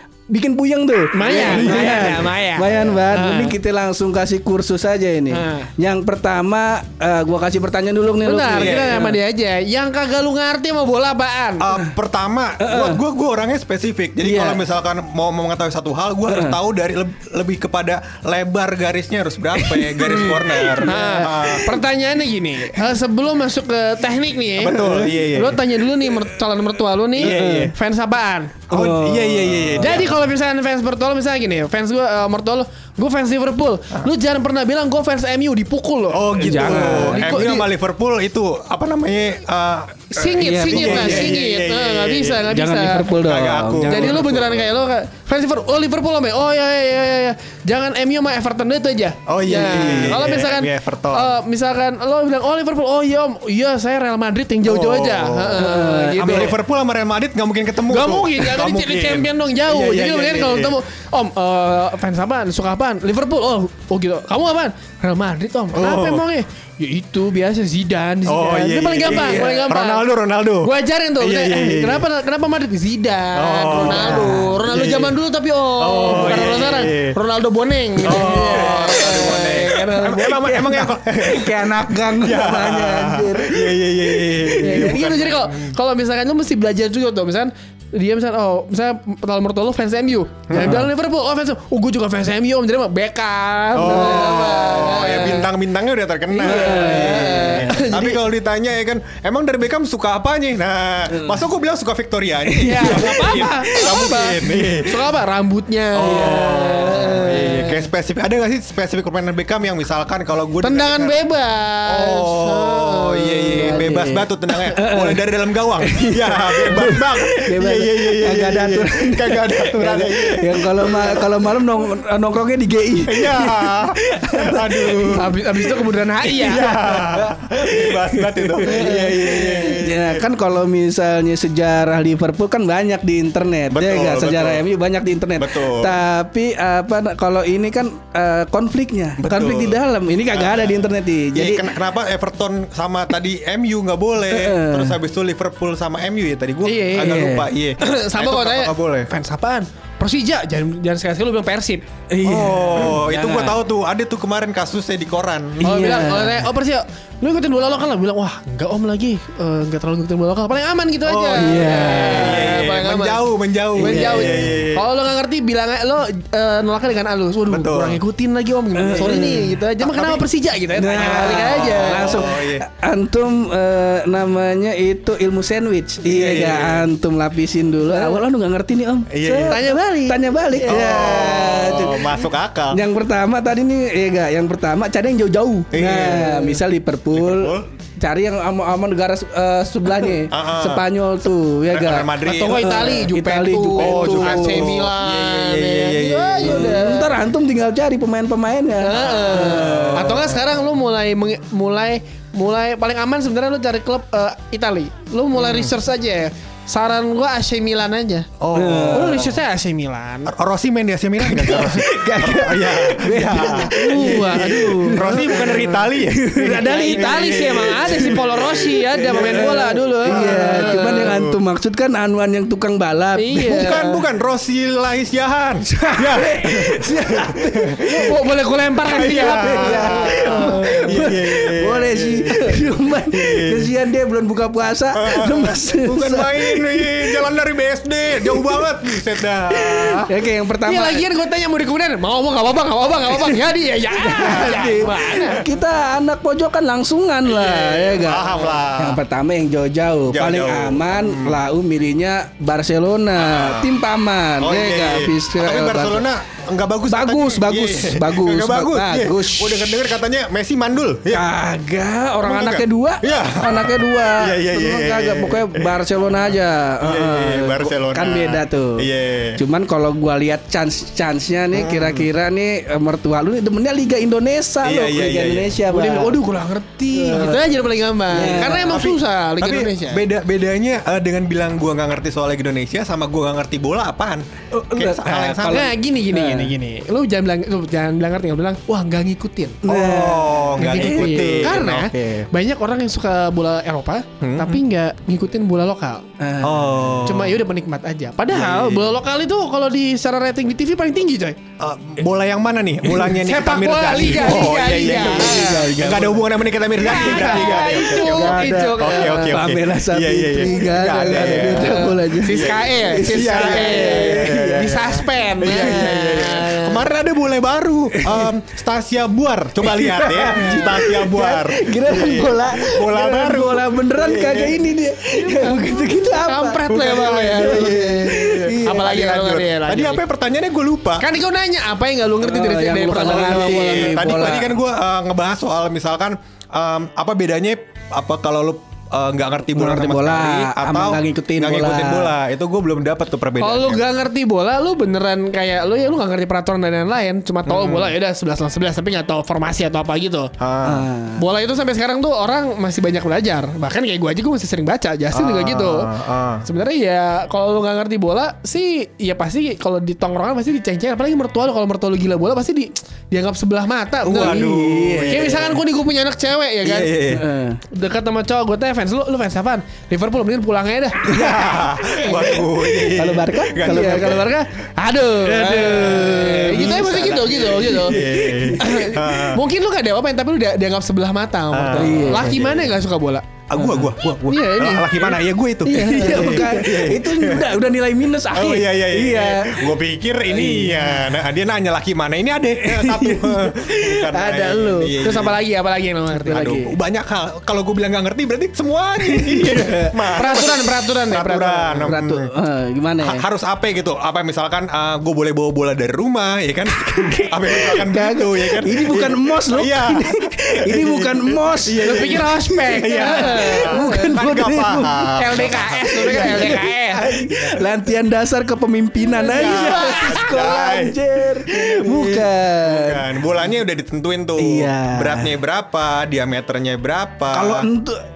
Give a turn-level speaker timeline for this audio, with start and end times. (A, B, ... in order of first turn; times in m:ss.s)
0:00.3-0:09.2 A
0:01.1-0:03.6 B
0:01.2-0:02.3 C
0:05.3-0:05.7 B
0:08.2-0:11.7 B
0:08.5-0:08.9 C
0:11.6-0:21.8 C
0:12.6-0:13.0 A
0:14.2-0:14.6 A
0:16.3-0:16.6 A
0:19.6-0:21.6 A
0:20.8-0:28.6 B
0:24.6-0:25.6 C
0:24.8-0:25.2 A
0:27.2-0:27.8 C
0:27.2-0:27.7 A
0:28.7-0:30.2 C
0:28.7-0:30.0 A
0:29.8-0:37.7 B
0:36.1-0:42.6 C
0:36.4-0:37.4 A
0:40.1-0:43.1 B
0:40.4-0:41.4 A
0:42.5-0:44.2 A
0:43.1-0:44.6 C
0:43.9-0:56.5 B
0:49.3-0:51.4 C
0:54.6-1:00.8 C
0:55.6-0:56.5 A
0:57.9-1:10.1 B
1:05.7-1:06.2 C
1:08.2-1:12.0 C
1:09.0-1:09.7 A
1:10.6-1:20.9 B
1:13.4-1:15.2 C
1:13.7-1:14.6 A
1:15.8-1:17.1 C
1:16.1-1:16.4 A
1:18.0-1:25.8 C
1:18.0-1:18.8 A
1:20.7-1:25.0 A
1:24.6-1:35.5 B
1:30.5-1:30.9 C
1:30.6-1:30.8 A
1:33.7-1:45.0 C
1:33.8-1:34.4 A
1:36.3-1:38.2 B
1:36.4-1:37.7 A
1:41.1-1:41.4 A
1:42.6-1:43.5 A
1:42.6-1:47.8 B
1:46.0-1:51.1 C
1:46.0-1:47.4 A
1:50.6-1:53.8 B
1:51.9-2:01.4 C
1:53.6-1:55.2 A
1:55.8-2:05.7 A
2:03.0-2:05.3 C
2:05.2-2:06.8 B
2:06.3-2:10.2 C
2:06.4-2:21.7 A
2:13.7-2:14.6 C
2:15.4-2:16.0 C
2:19.2-2:19.8 C
2:20.3-2:29.1 C
2:24.3-2:25.0 A
2:26.6-2:31.8 B
2:27.0-2:27.5 A
2:32.1-2:33.5 A
2:32.2-2:35.7 C
2:35.6-2:36.4 A
2:35.6-2:52.3 B
2:41.0-2:44.9 C
2:41.4-2:42.5 A
2:43.8-2:44.6 A
2:47.5-2:48.0 C
2:48.8-2:49.6 A
2:49.8-2:50.2 C
2:50.7-3:14.8 A
2:51.2-2:52.6 C
2:56.0-2:56.9 C
2:59.1-2:59.6 C
2:59.5-3:00.2 B
3:00.6-3:02.8 C
3:05.7-3:06.6 C
3:07.1-3:07.6 C
3:10.3-3:10.8 C
3:11.7-3:12.7 C
3:12.2-3:17.1 B
3:13.8-3:16.8 C
3:16.4-3:20.1 A
3:18.8-3:28.3 B
3:18.9-3:20.5 C
3:25.3-3:25.7 C
3:28.4-3:29.4 C
3:28.5-3:29.2 A
3:28.9-3:30.3 B
3:30.2-3:41.4 C
3:31.2-3:38.2 A
3:33.4-3:35.8 B
3:36.4-3:41.2 B
3:39.0-3:43.9 A
3:43.2-3:43.9 B
3:43.4-3:48.1 C
3:45.7-3:48.2 A
3:47.8-3:51.0 B
3:48.9-3:53.7 C
3:48.9-3:57.2 A
3:54.9-4:00.1 C
3:58.3-3:58.6 A
3:59.5-4:01.0 A
4:00.6-4:05.4 B
4:04.0-4:16.0 A
4:04.2-4:04.7 C
4:07.2-4:09.0 C
4:10.1-4:11.4 C
4:13.2-4:13.7 C
4:14.4-4:21.3 C
4:16.9-4:19.8 A
4:21.1-4:28.9 A
4:22.2-4:26.0 C
4:26.8-4:29.4 C
4:29.4-4:36.2 A
4:31.5-4:32.1 C
4:34.6-4:35.6 C
4:35.7-4:40.0 B
4:36.9-4:37.5 A
4:38.1-4:38.8 A
4:38.2-4:45.7 C
4:44.5-4:46.5 A
4:45.5-4:49.6 B
4:49.6-4:51.5 A
4:49.6-4:52.2 C
4:50.6-4:56.0 B
4:54.2-4:54.6 C
4:56.2-4:56.8 A
4:56.4-4:57.4 C
4:57.0-5:01.4 B
4:58.3-4:58.9 C
5:01.6-5:24.6 C
5:02.8-5:03.2 A
5:03.2-5:05.7 B
5:04.0-5:06.3 A
5:06.8-5:09.4 B
5:06.9-5:15.9 A
5:11.6-5:16.9 B
5:18.0-5:18.3 A
5:19.6-5:29.2 A
5:26.1-5:30.0 B
5:26.7-5:31.1 C
5:31.0-5:34.1 B
5:32.2-5:34.5 A
5:33.0-5:43.8 C
5:39.5-5:42.1 A
5:43.4-5:50.3 B
5:47.5-5:47.9 C
5:50.4-5:50.9 C
5:50.6-5:51.2 A
5:51.2-5:55.9 B
5:55.1-5:56.4 C
5:56.4-6:04.5 B
6:04.0-6:05.6 C
6:04.1-6:05.4 A
6:05.1-6:07.0 B
6:06.6-6:07.2 C
6:07.1-6:07.6 A
6:07.7-6:12.4 B
6:11.0-6:14.3 C
6:12.9-6:14.3 A
6:13.6-6:18.0 B
6:15.2-6:18.7 A
6:15.5-6:19.4 C
6:18.6-6:23.2 B
6:21.5-6:22.8 C
6:21.8-6:22.3 A
6:23.5-6:27.5 C
6:23.6-6:23.9 A
6:24.3-6:26.7 B
6:25.6-6:29.7 A
6:28.3-6:35.4 C
6:30.3-6:31.2 A
6:32.6-6:35.0 A
6:35.0-6:36.5 B
6:36.1-6:36.8 A
6:36.3-6:42.3 C
6:39.0-6:40.1 A
6:40.2-6:41.9 B
6:41.8-6:43.2 A
6:43.0-6:56.6 C
6:46.8-7:03.0 A
6:51.8-6:54.2 B
6:55.2-6:57.2 B
6:59.2-7:00.4 B
6:59.2-7:07.7 C
7:04.4-7:05.3 A
7:07.3-7:08.0 A